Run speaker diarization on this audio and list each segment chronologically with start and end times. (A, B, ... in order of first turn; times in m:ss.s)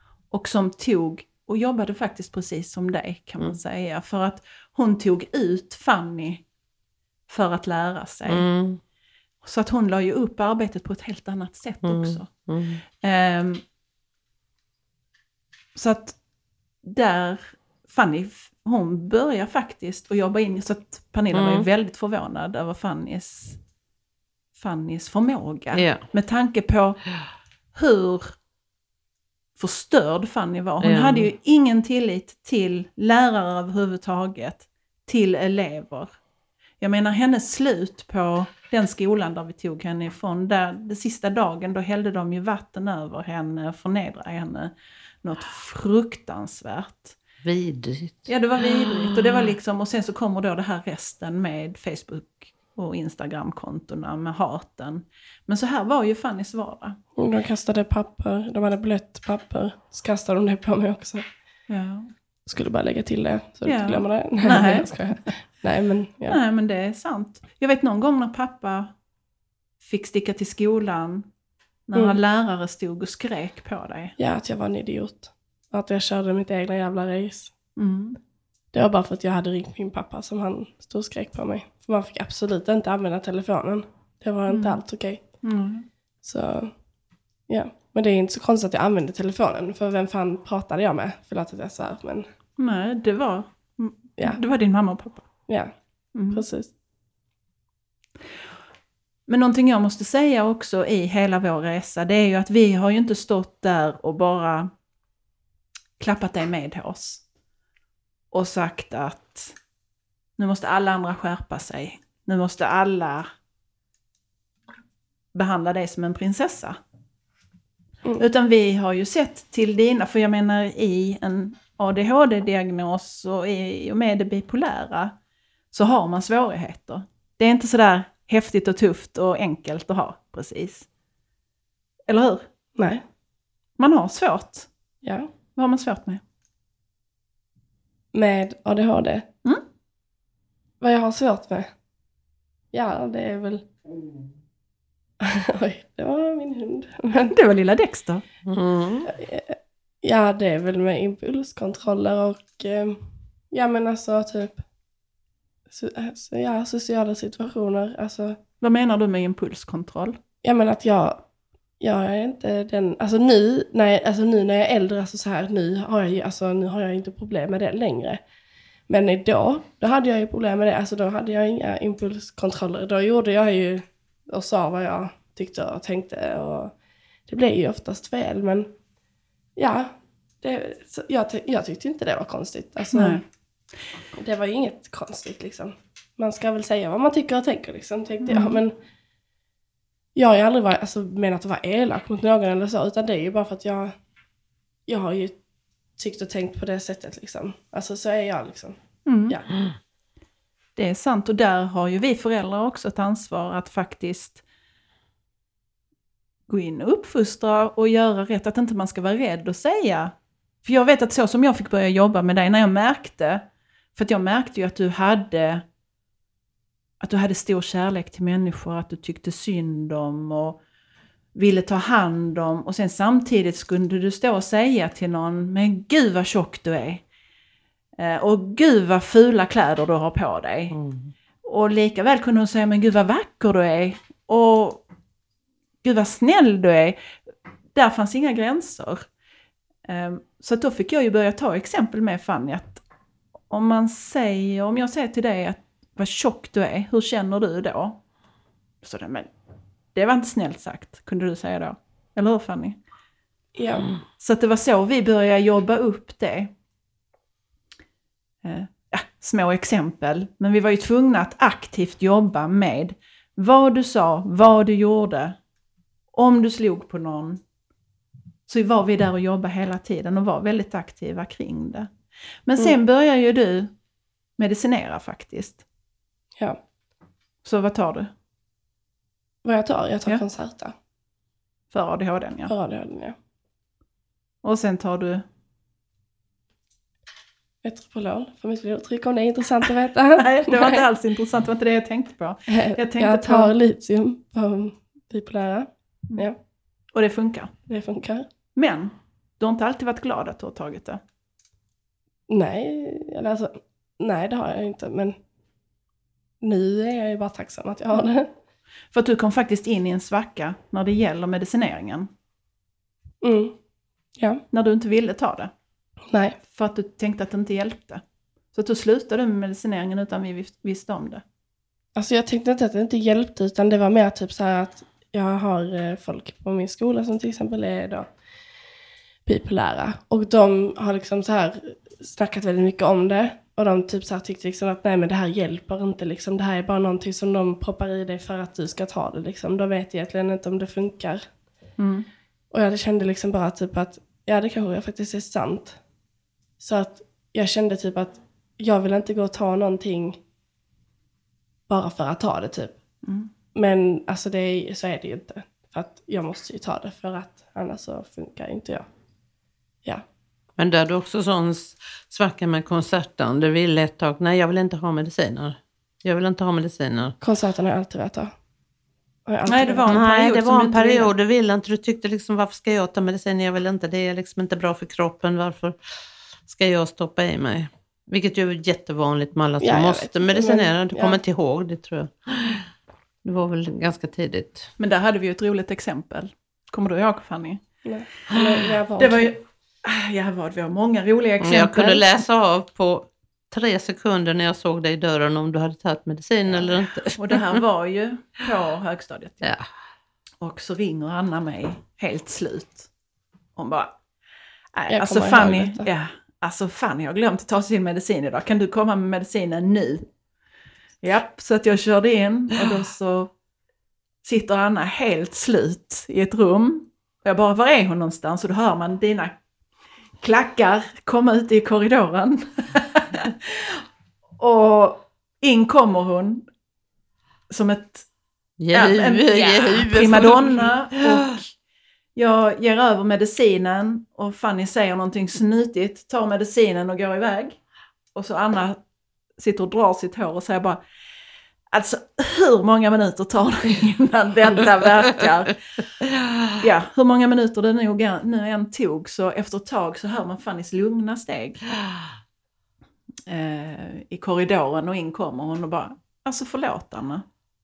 0:00.3-0:06.4 A
0:07.3-0:08.5 A
0:08.3-0:08.8 B
0:09.4-0:12.3 A
0:11.8-0:12.8 B
0:13.0-0:13.6 A
0:15.8-0:16.2 A
0:16.8-0:23.6 A
0:21.3-0:21.7 B
0:24.6-0:27.0 A
0:25.7-0:26.0 B
0:27.7-0:28.4 A
0:29.6-0:36.1 A
0:30.8-0:31.3 B
0:36.8-0:47.2 A
0:47.4-0:49.5 B
0:48.3-0:57.0 A
0:57.2-1:01.3 C
1:01.7-1:02.1 A
1:02.5-1:06.4 C
1:03.6-1:05.1 A
1:06.3-1:08.9 A
1:09.8-1:11.3 A
1:11.9-1:14.2 A
1:14.2-1:17.5 C
1:17.8-1:18.2 A
1:18.7-1:25.4 C
1:24.5-1:24.8 A
1:25.4-1:25.9 A
1:26.2-1:26.8 C
1:27.5-1:32.3 C
1:32.6-1:35.3 A
1:35.5-1:35.7 C
1:36.2-1:36.4 A
1:36.3-1:36.7 C
1:39.3-1:44.7 A
1:46.0-1:47.2 A
1:48.3-1:49.6 A
1:50.4-1:53.3 A
1:55.3-1:56.8 A
1:58.2-2:05.2 A
2:05.7-2:10.9 A
2:12.1-2:12.5 A
2:12.8-2:13.0 C
2:13.8-2:14.7 A
2:15.0-2:15.3 C
2:15.6-2:16.2 A
2:18.1-2:19.3 C
2:20.8-2:21.7 C
2:22.7-2:23.7 C
2:25.2-2:27.4 C
2:27.3-2:28.2 A
2:28.5-2:29.1 B
2:29.1-2:34.6 C
2:35.7-2:38.4 C
2:38.6-2:40.2 A
2:40.4-2:41.2 C
2:41.8-2:48.2 C
2:48.9-2:56.8 C
2:57.3-2:58.7 C
2:59.6-3:03.2 C
3:02.9-3:03.2 A
3:04.2-3:08.8 C
3:08.2-3:08.6 A
3:10.2-3:14.0 C
3:14.9-3:15.4 C
3:16.0-3:19.5 C
3:19.1-3:19.4 A
3:20.8-3:24.4 A
3:26.5-3:33.4 A
3:34.0-3:35.6 A
3:37.0-3:40.6 A
3:41.4-3:47.0 A
3:48.0-3:50.8 A
3:50.7-3:51.1 B
3:51.4-3:54.8 A
3:55.8-3:57.2 A
3:57.7-3:59.1 A
3:59.8-4:02.8 A
4:03.5-4:08.0 A
4:08.8-4:09.3 A
4:09.9-4:12.8 A
4:13.6-4:13.9 C
4:14.2-4:16.5 A
4:18.4-4:25.4 A
4:26.1-4:27.4 A
4:28.5-4:31.9 A
4:32.5-4:33.7 A
4:34.4-4:35.6 A
4:37.4-4:38.1 A
4:39.4-4:40.8 C
4:41.7-4:42.5 A
4:42.5-4:43.2 C
4:44.4-4:45.2 A
4:47.6-4:50.8 C
4:50.2-4:53.5 A
4:52.5-4:56.4 C
4:56.9-4:57.5 A
4:57.7-4:58.3 C
4:58.6-5:01.0 A
5:02.3-5:05.2 C
5:06.4-5:08.3 C
5:08.9-5:12.1 A
5:13.2-5:13.6 C
5:14.2-5:14.4 C
5:14.5-5:15.5 A
5:16.1-5:16.4 C
5:16.5-5:18.0 A
5:18.5-5:21.2 A
5:22.0-5:28.1 C
5:29.3-5:41.3 C
5:41.8-5:42.1 A
5:42.5-5:45.8 C
5:46.6-5:50.2 C
5:51.7-5:52.8 C
5:53.0-5:53.3 A
5:53.5-5:58.9 C
6:00.6-6:07.2 B
6:07.2-6:08.3 C
6:09.3-6:10.0 C
6:09.5-6:11.1 A
6:09.9-6:22.7 B
6:19.6-6:21.2 C
6:23.2-6:24.7 B
6:24.8-6:27.6 A
6:27.8-6:29.3 C
6:29.0-6:32.2 A
6:31.4-6:37.6 B
6:37.2-6:39.5 A
6:40.4-6:42.9 A
6:43.6-6:44.0 A
6:44.7-6:50.1 A
6:44.9-6:45.9 C
6:51.0-6:53.3 A
6:54.2-6:59.4 A
7:00.2-7:03.8 A
7:04.4-7:06.4 A
7:07.5-7:08.1 A
7:08.6-7:11.2 B
7:08.7-7:11.5 A
7:12.2-7:17.6 A
7:18.1-7:18.8 A
7:19.4-7:20.8 A
7:21.7-7:25.6 A
7:26.6-7:31.6 A
7:33.3-7:37.2 A